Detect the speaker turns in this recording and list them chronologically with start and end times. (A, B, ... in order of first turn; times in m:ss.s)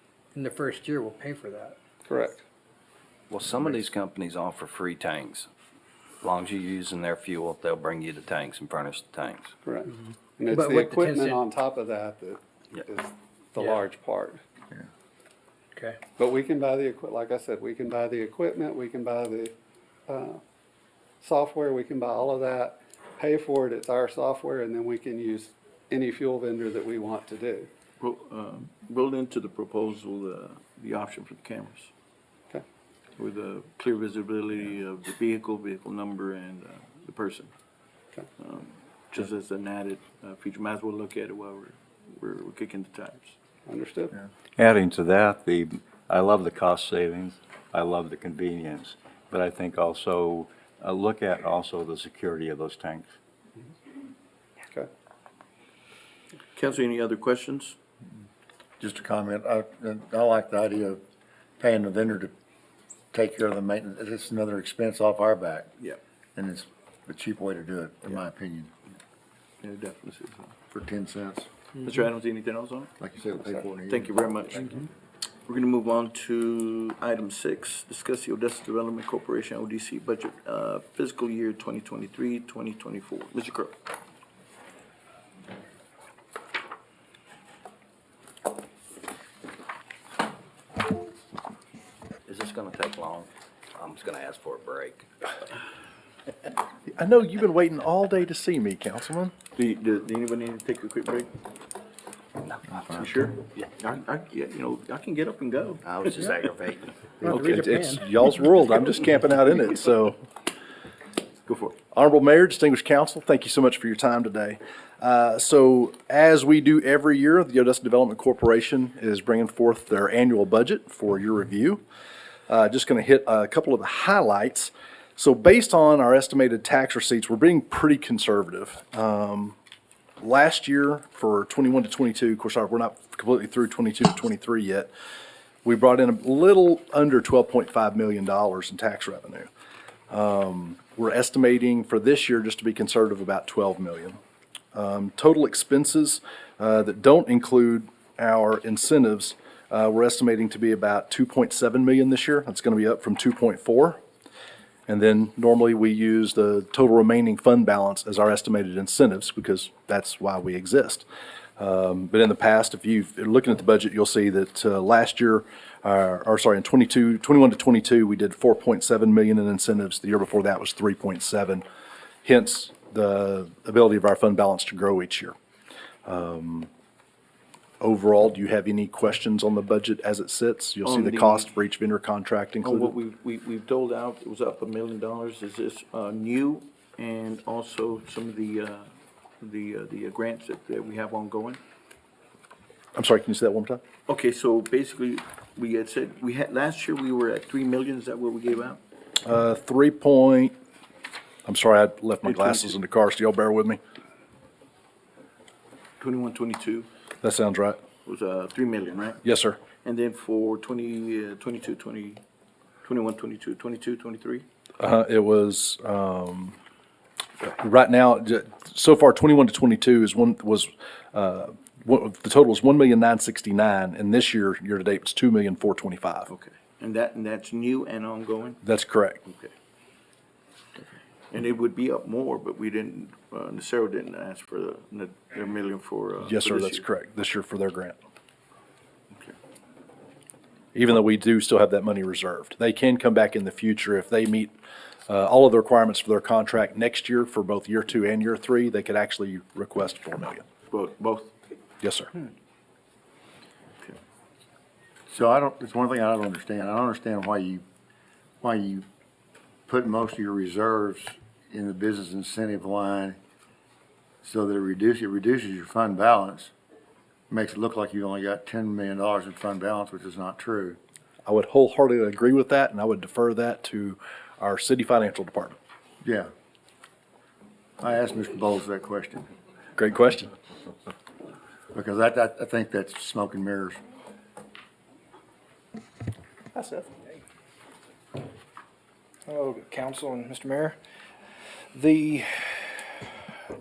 0:00.3-0:01.8 A
0:02.1-0:02.4 B
0:03.3-0:05.5 C
0:06.2-0:09.5 C
0:09.6-0:14.4 B
0:10.5-0:11.4 A
0:16.2-0:19.5 B
0:20.1-0:20.4 B
0:21.2-0:27.7 B
0:28.0-0:31.9 D
0:33.2-0:37.5 D
0:38.4-0:43.4 D
0:43.7-0:44.1 B
0:44.6-0:53.1 E
0:56.6-0:57.8 D
0:58.8-1:01.0 F
1:01.6-1:02.3 F
1:03.1-1:05.7 F
1:06.4-1:08.7 F
1:09.6-1:10.5 D
1:10.7-1:11.5 F
1:11.8-1:12.9 D
1:13.0-1:14.7 F
1:13.9-1:14.8 D
1:15.5-1:23.8 D
1:32.3-1:35.1 C
1:36.9-1:39.3 G
1:39.6-1:41.3 D
1:42.8-1:46.4 D
1:45.8-1:46.9 C
1:47.2-1:48.0 D
1:47.2-1:48.0 A
1:47.3-1:50.2 G
1:51.5-1:51.8 D
1:51.9-2:01.8 G
2:02.5-2:09.6 G
2:10.2-2:14.9 G
2:15.6-2:19.5 G
2:20.1-2:24.2 G
2:24.7-2:34.0 G
2:34.9-2:41.1 G
2:41.6-2:51.6 G
2:52.2-2:55.4 G
2:56.1-2:56.7 G
2:57.8-3:02.9 G
3:00.8-3:01.5 D
3:02.6-3:08.9 D
3:09.4-3:11.6 D
3:13.0-3:13.8 G
3:14.1-3:18.8 D
3:19.2-3:20.5 G
3:21.4-3:23.8 G
3:22.2-3:22.7 D
3:26.0-3:26.9 D
3:27.2-3:27.8 G
3:28.1-3:29.2 D
3:29.2-3:29.6 G
3:29.8-3:32.2 D
3:32.8-3:34.4 D
3:34.8-3:36.6 G
3:37.4-3:46.3 G
3:46.3-3:48.6 D
3:48.6-3:49.2 G
3:49.3-3:49.5 D
3:50.8-3:56.8 D
3:56.2-3:58.0 G
4:00.8-4:04.5 G
4:05.1-4:10.4 G
4:10.7-4:11.3 D
4:11.8-4:12.1 G
4:15.1-4:17.6 F
4:18.4-4:18.9 F
4:19.7-4:23.2 F
4:24.2-4:26.5 F
4:27.3-4:30.8 F
4:31.2-4:35.6 G
4:36.0-4:36.3 F
4:37.8-4:39.3 F
4:39.8-4:40.3 G
4:41.7-4:43.8 F
4:49.3-4:50.8 H
4:51.7-4:52.7 H